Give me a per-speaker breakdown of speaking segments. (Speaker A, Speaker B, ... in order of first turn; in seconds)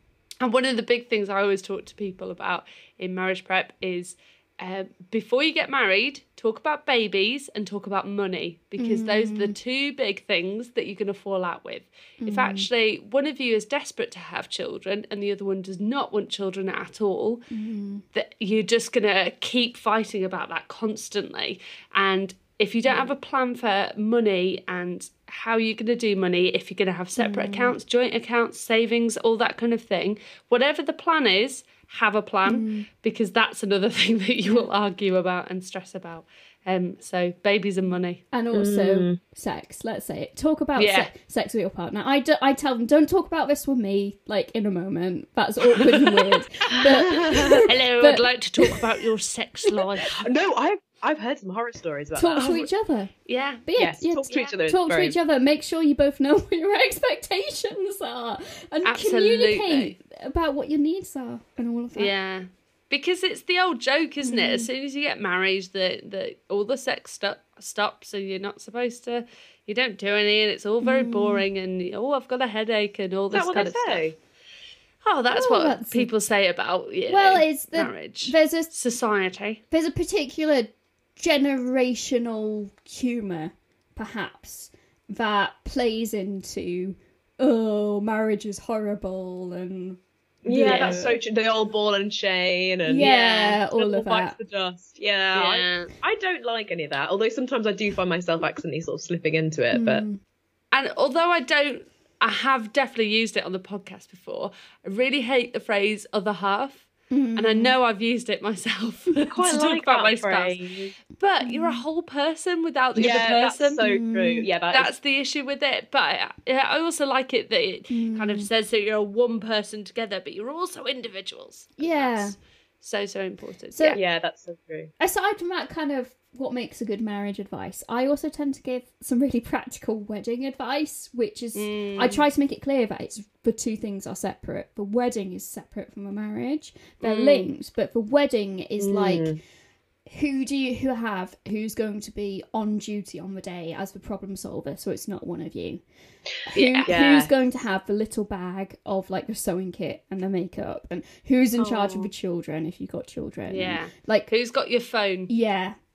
Speaker A: 0.4-17.4, 18.1-38.2, 40.8-41.1, 45.7-50.2, 52.4-52.6, 53.3-53.6, 58.8-59.9, 62.0-74.0, 75.0-79.6, 90.6-91.0, 92.9-93.6, 95.3-95.9, 100.7-113.8, 114.7-124.0, 131.5-132.2, 137.0-137.5, 146.5-146.9, 153.5-155.3
Speaker B: 8.8-9.6, 12.2-12.7, 17.5-18.0, 27.2-27.8, 32.5-32.9, 34.4-34.7, 38.3-48.9, 52.1-53.1, 53.6-62.1, 64.2-64.7, 70.8-71.4, 75.3-76.1, 77.1-78.7, 79.7-91.2, 92.8-94.3, 99.7-100.2, 107.1-107.7, 111.4-111.8, 113.8-114.5, 117.9-118.5, 121.8-122.3, 125.0-139.4, 140.1-145.8, 146.4-154.3, 155.3-155.8
Speaker C: 38.5-39.2, 46.7-47.6, 50.0-52.7, 53.7-55.1, 73.3-74.2, 90.4-100.0, 109.3-110.9, 113.0-114.9, 123.9-124.9, 138.8-139.4, 146.8-147.3, 151.6-152.1